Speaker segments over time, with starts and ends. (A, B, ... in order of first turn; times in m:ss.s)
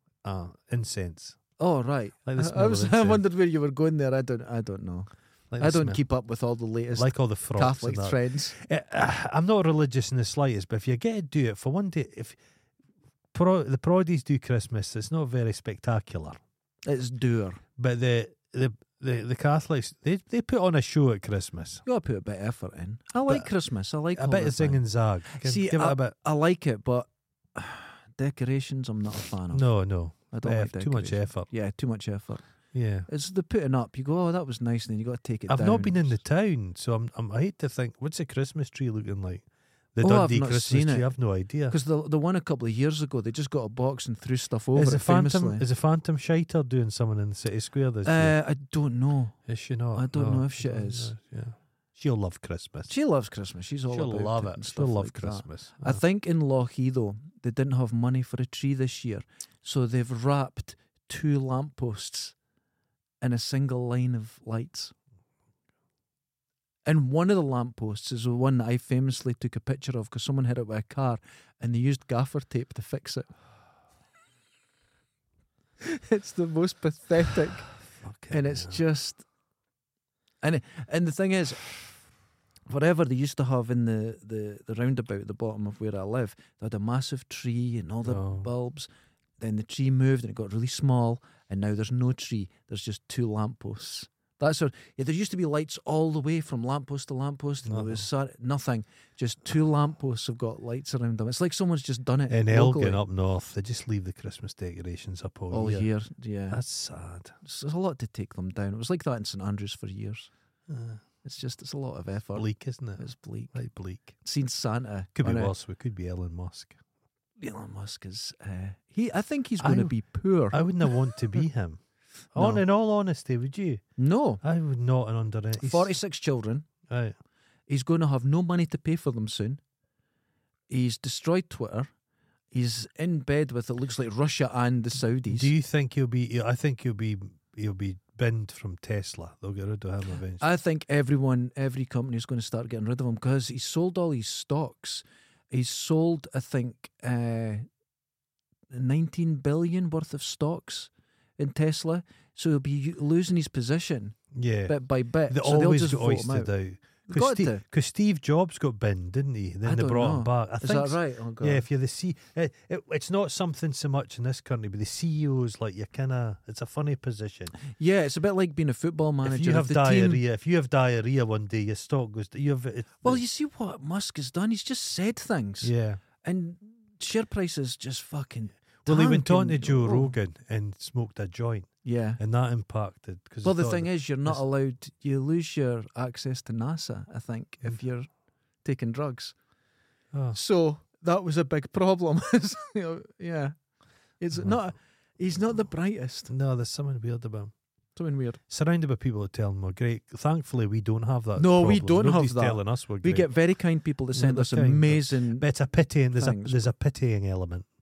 0:00.2-0:01.4 A
0:01.6-0:08.6 B
0:02.3-0:03.2 A
0:05.5-0:06.0 A
0:07.0-0:12.4 A
0:13.3-0:16.4 A
0:16.8-0:17.6 B
0:17.8-0:21.8 A
0:21.9-0:29.7 B
0:24.1-0:26.2 A
0:29.5-0:31.5 A
0:30.3-0:32.4 B
0:32.7-0:33.1 A
0:33.1-0:36.2 B
0:35.5-0:41.8 A
0:40.0-0:41.1 B
0:41.7-0:45.6 B
0:44.8-0:48.3 A
0:48.0-0:49.4 B
0:49.5-0:52.9 A
0:50.0-0:51.1 B
0:52.9-1:02.4 B
0:53.9-0:56.0 A
1:03.2-1:04.9 B
1:06.9-1:13.3 B
1:15.8-1:17.7 B
1:17.9-1:18.8 A
1:18.3-1:19.2 B
1:20.4-1:21.7 B
1:22.7-1:43.0 B
1:28.0-1:28.5 A
1:37.7-1:38.1 A
1:42.3-1:45.9 A
1:45.5-1:46.6 B
1:46.5-1:47.4 A
1:47.4-1:50.3 B
1:50.7-1:51.0 A
1:51.2-1:53.6 B
1:52.4-1:54.2 A
1:54.2-1:55.5 B
1:55.2-1:56.8 A
1:57.4-2:01.1 B
1:59.6-1:59.9 A
2:00.5-2:01.8 A
2:02.3-2:03.8 A
2:02.4-2:02.6 B
2:04.0-2:04.4 B
2:04.4-2:05.9 A
2:05.6-2:06.7 B
2:06.9-2:07.2 A
2:07.7-2:09.6 B
2:10.7-2:11.9 B
2:12.5-2:15.5 B
2:15.3-2:20.4 A
2:20.4-2:27.7 B
2:28.7-2:36.5 B
2:34.3-2:34.8 A
2:35.3-2:47.6 A
2:37.1-2:37.6 B
2:39.6-2:41.7 B
2:47.7-2:50.2 B
2:49.2-2:53.2 A
2:53.0-3:00.1 B
2:55.6-2:56.0 A
2:58.9-3:04.4 A
3:01.8-3:02.2 B
3:03.4-3:08.1 B
3:08.6-3:09.4 B
3:10.1-3:10.4 A
3:10.3-3:13.6 B
3:14.2-3:16.3 B
3:14.3-3:14.6 A
3:16.3-3:17.5 A
3:18.0-3:18.4 B
3:18.5-3:23.3 A
3:21.4-3:25.5 B
3:24.2-3:27.7 A
3:26.2-3:26.7 B